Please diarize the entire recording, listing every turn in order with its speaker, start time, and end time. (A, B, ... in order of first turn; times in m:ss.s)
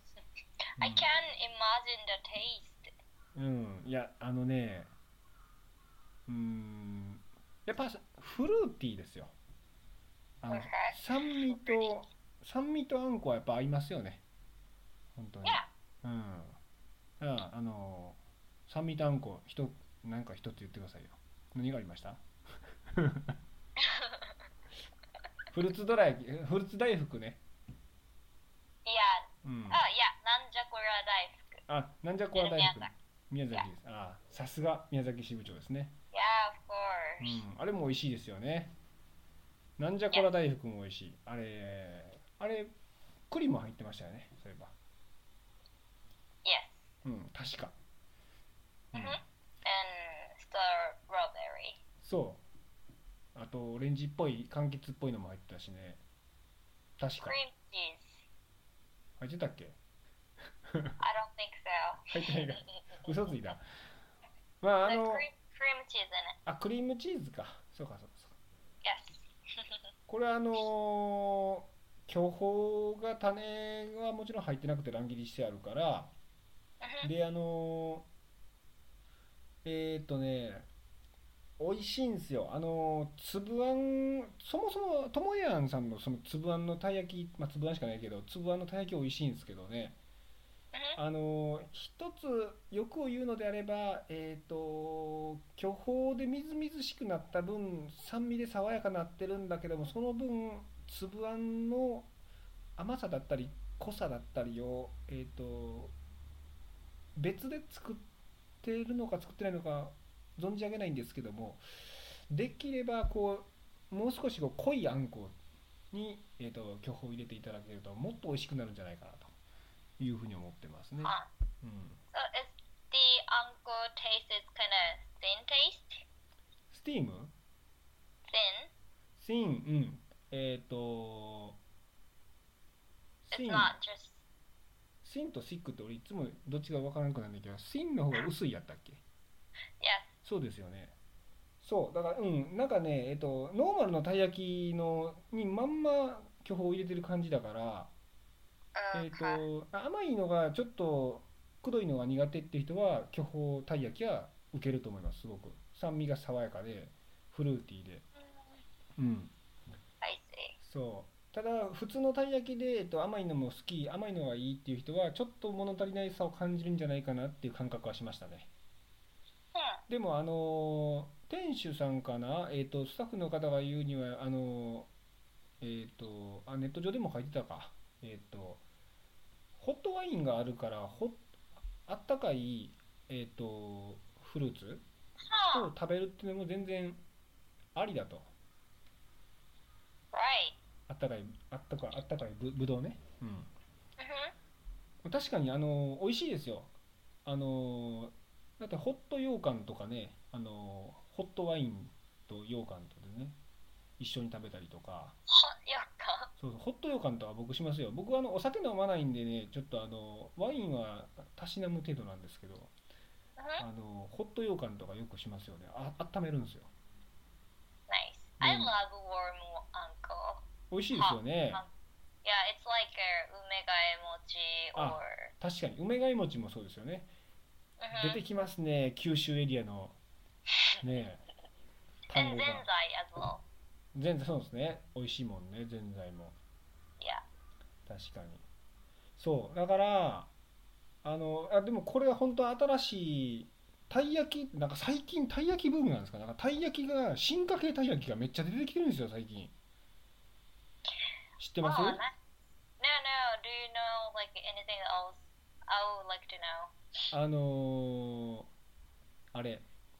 0:00.8-0:02.9 A
0:00.8-0:01.0 B
0:03.3-0:04.9 B
0:06.3-0:09.3 B
0:10.4-0:14.2 B
0:10.5-0:11.9 A
0:15.1-0:16.6 B
0:15.4-0:15.7 A
0:17.2-0:22.2 B
0:22.9-0:23.3 B
0:23.8-0:24.3 A
0:25.5-0:27.4 B
0:28.8-0:31.6 A
0:29.4-0:29.8 B
0:31.7-0:36.0 B
0:32.4-0:32.9 A
0:36.1-0:37.4 A
0:37.2-0:38.7 B
0:39.8-0:42.7 B
0:43.3-0:44.7 B
0:46.4-0:46.9 A
0:47.0-0:47.7 B
0:48.9-0:49.2 B
0:49.0-0:51.8 A
0:52.0-0:52.4 B
0:53.3-0:56.0 B
0:57.0-0:57.4 B
0:57.2-0:58.2 A
0:59.2-0:59.8 B
1:01.0-1:03.0 A
1:02.1-1:03.6 B
1:04.6-1:05.2 B
1:04.8-1:06.4 A
1:06.4-1:08.3 B
1:08.8-1:09.3 A
1:10.1-1:16.1 B
1:16.8-1:17.1 A
1:17.0-1:18.1 B
1:19.6-1:20.7 B
1:21.6-1:30.0 B
1:30.7-1:31.0 A
1:31.0-1:42.1 B
1:42.8-1:45.9 B
1:47.2-1:48.0 B
1:48.6-1:51.6 B
1:52.3-1:55.4 B
1:55.9-1:59.3 B
2:00.0-2:02.0 B
2:01.0-2:01.3 A
2:02.1-2:06.0 A
2:06.7-2:07.3 B
2:08.3-2:08.7 A
2:09.2-2:11.6 B
2:13.2-2:13.7 B
2:13.3-2:14.2 A
2:15.0-2:19.0 B
2:19.8-2:20.1 A
2:20.2-2:20.9 B
2:21.6-2:27.9 B
2:28.8-2:29.4 A
2:28.9-2:38.0 B
2:39.0-2:39.3 B
2:40.0-2:40.6 A
2:40.6-2:48.5 B
2:49.5-2:49.8 A
2:49.9-2:54.9 B
2:55.6-2:58.6 B
2:59.6-3:01.2 B
3:01.8-3:04.8 B
3:05.3-3:05.7 A
3:05.5-3:07.0 B
3:07.7-3:08.3 B
3:10.1-3:10.6 A
3:10.9-3:13.5 B
3:14.0-3:14.3 A
3:15.0-3:16.7 B
3:17.2-3:23.4 B
3:24.0-3:25.2 B
3:25.3-3:26.3 A
3:26.4-3:32.7 B
3:33.4-3:33.6 A
3:33.6-3:36.7 B
3:37.9-3:41.7 A
3:38.4-3:38.7 B
3:40.7-3:41.6 B
3:42.2-3:45.3 A
3:44.8-3:47.1 B
3:47.8-3:48.2 A
3:47.9-3:50.0 B
3:50.8-3:51.2 B
3:52.1-3:52.6 B
3:52.1-3:53.4 A
3:53.9-3:56.4 B
3:57.0-3:57.2 A
3:57.8-3:58.4 B
3:59.2-4:00.3 B
4:01.0-4:09.5 B
4:11.4-4:12.0 B
4:11.6-4:12.2 A
4:12.8-4:16.7 A
4:17.1-4:18.5 B
4:19.3-4:19.6 B